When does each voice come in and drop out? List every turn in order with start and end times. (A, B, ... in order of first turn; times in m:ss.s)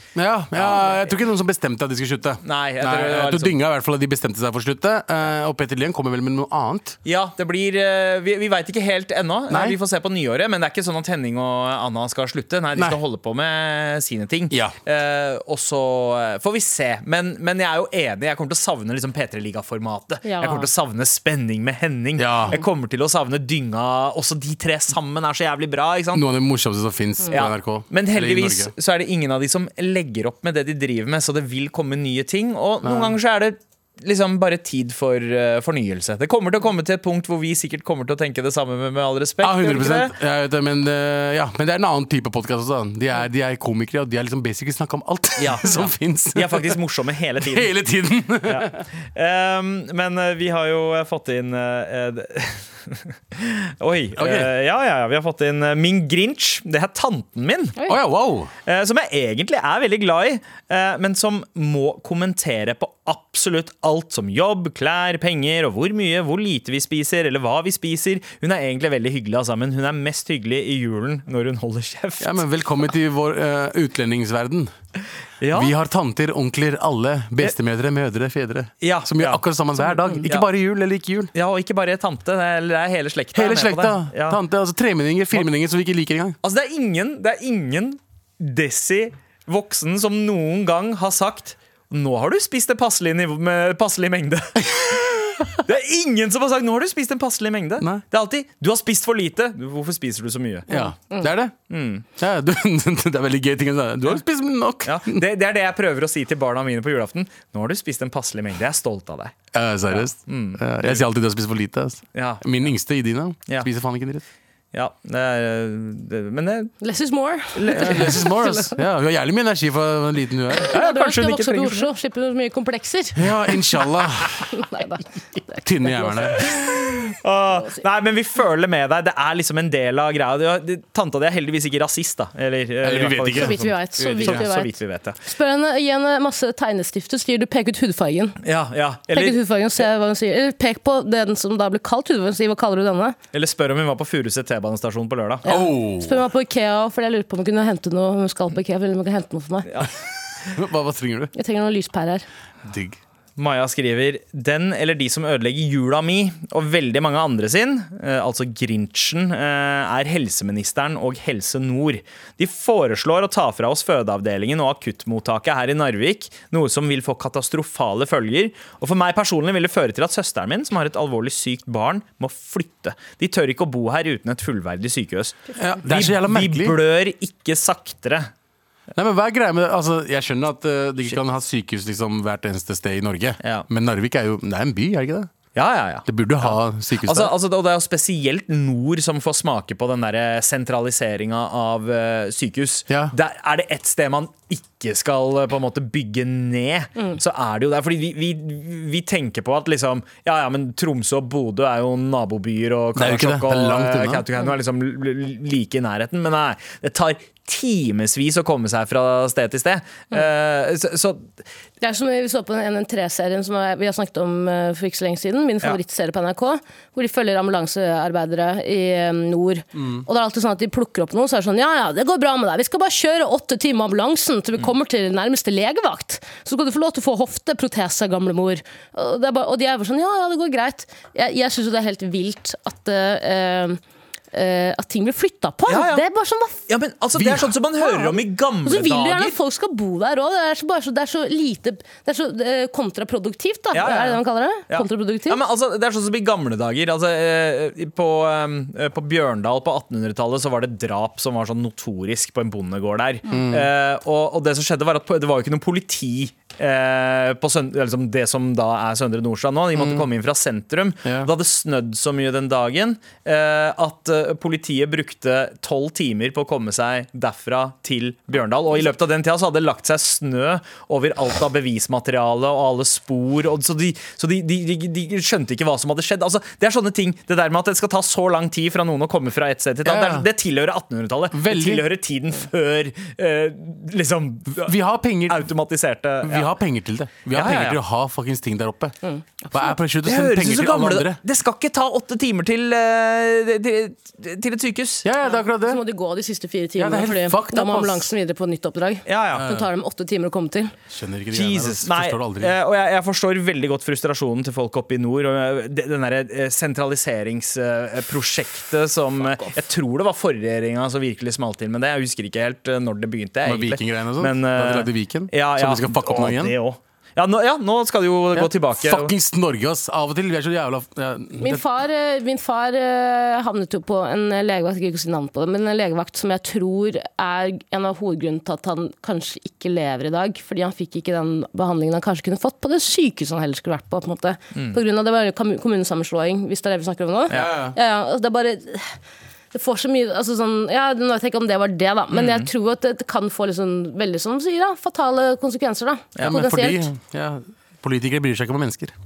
0:00.2-0:07.0 A
0:00.6-0:01.2 B
0:02.4-0:03.6 B
0:07.0-0:26.2 B
0:09.5-0:09.8 A
0:14.5-0:14.8 A
0:20.2-0:20.7 C
0:22.2-0:22.6 A
0:26.1-0:28.7 A
0:27.3-0:40.1 B
0:32.8-0:33.2 A
0:39.4-0:46.8 A
0:45.4-0:47.7 B
0:47.4-0:48.8 A
0:48.4-0:57.8 B
0:54.2-0:54.5 A
0:57.9-0:58.5 A
0:58.7-1:12.4 B
1:12.2-1:14.7 A
1:15.4-1:15.7 B
1:15.5-1:21.3 A
1:18.8-1:19.5 B
1:20.2-1:20.5 B
1:21.3-1:24.4 B
1:23.3-1:26.4 A
1:26.4-1:40.7 B
1:40.7-1:41.6 A
1:40.7-1:41.3 C
1:41.7-1:42.0 B
1:42.2-1:45.2 A
1:44.8-1:49.4 B
1:49.5-1:54.2 A
1:49.9-1:51.0 B
1:52.2-1:52.4 B
1:54.7-1:56.7 B
1:56.8-1:58.7 C
1:57.6-1:58.3 B
1:57.7-2:00.8 A
2:00.6-2:03.5 C
2:00.7-2:01.9 B
2:03.2-2:04.5 A
2:04.5-2:06.7 C
2:05.6-2:06.5 A
2:07.0-2:15.2 B
2:07.5-2:07.8 C
2:12.8-2:14.5 A
2:13.4-2:18.4 C
2:18.4-2:19.8 B
2:19.1-2:23.2 C
2:23.3-2:25.4 B
2:25.4-2:29.9 C
2:25.5-2:26.2 A
2:29.7-2:29.9 B
2:30.5-2:31.3 A
2:31.4-2:32.2 C
2:32.6-2:33.0 A
2:33.4-2:58.3 B
2:55.6-2:56.8 A
2:59.0-3:05.3 A
3:05.6-3:31.3 B
3:06.1-3:07.4 A
3:23.0-3:24.3 A
3:31.8-3:53.8 C
3:39.8-3:40.0 A
3:54.3-3:56.6 C
3:55.7-3:56.0 B
3:56.7-3:59.4 B
3:57.2-3:57.5 A
3:57.8-4:05.4 C
4:03.7-4:44.8 B
4:13.3-4:13.7 A
4:19.8-4:20.1 A
4:21.0-4:21.3 A
4:39.8-4:40.3 A
4:41.3-4:41.9 A
4:44.6-4:45.5 A
4:45.3-4:46.5 B
4:46.2-4:49.0 A
4:47.3-4:47.8 B
4:49.0-4:49.7 C
4:49.5-4:51.2 A
4:50.0-4:55.0 B
4:55.0-4:55.8 A
4:55.3-5:00.7 C
4:56.8-4:58.1 A
4:59.1-4:59.5 B
4:59.3-4:59.7 A
5:00.9-5:02.5 A
5:01.3-5:19.1 B
5:13.4-5:16.6 A
5:18.4-5:21.6 A
5:21.4-5:39.0 C
5:34.5-5:34.8 B
5:37.3-5:37.8 A
5:39.5-5:46.9 C
5:42.1-5:42.5 B
5:46.2-5:48.9 A